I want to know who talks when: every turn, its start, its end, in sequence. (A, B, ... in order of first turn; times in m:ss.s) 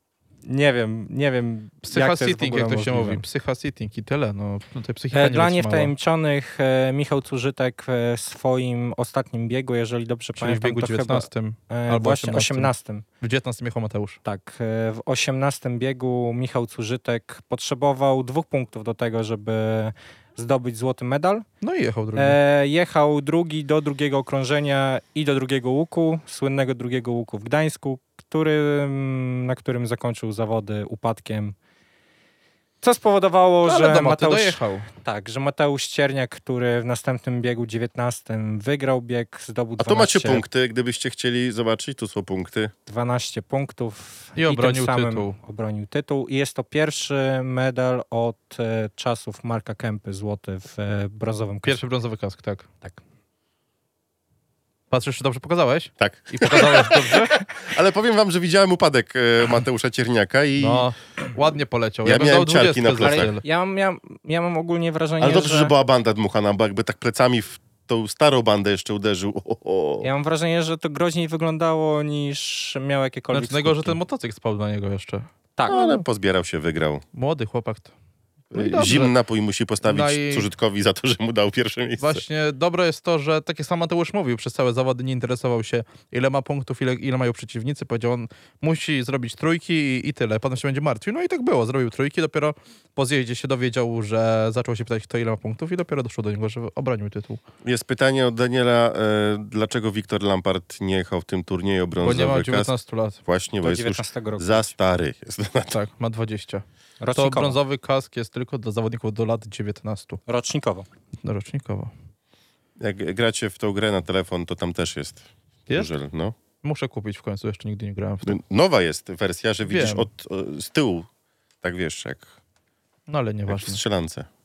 0:00.4-0:03.2 A
0:01.8-0:05.9 B
0:05.1-0:13.0 A
0:10.4-0:12.7 B
0:13.2-0:14.2 B
0:14.2-0:21.4 A
0:21.6-0:22.4 B
0:22.2-0:31.6 A
0:32.8-0:40.4 A
0:33.6-0:34.9 B
0:39.8-0:42.7 C
0:42.9-0:51.8 A
0:44.4-0:45.4 B
0:51.6-0:52.7 B
0:54.9-0:57.4 B
0:56.0-1:00.9 C
1:00.6-1:03.4 B
1:02.0-1:03.4 C
1:03.0-1:05.7 A
1:05.2-1:10.1 C
1:10.0-1:14.0 A
1:13.3-1:15.9 B
1:15.6-1:16.0 A
1:15.7-1:17.0 C
1:17.1-1:17.9 B
1:18.5-1:22.2 C
1:18.5-1:19.1 B
1:19.8-1:20.5 B
1:22.0-1:37.4 B
1:37.6-1:42.7 C
1:42.0-1:43.2 B
1:43.3-1:45.8 C
1:43.6-1:44.7 A
1:45.7-1:46.6 B
1:47.0-1:47.6 A
1:47.2-1:50.2 B
1:50.3-1:50.9 A
1:51.2-1:51.9 B
1:52.8-1:56.4 C
1:56.6-1:58.4 B
1:58.2-2:01.1 C
1:59.7-2:00.1 B
2:01.6-2:02.3 C
2:03.1-2:03.8 B
2:03.5-2:04.3 C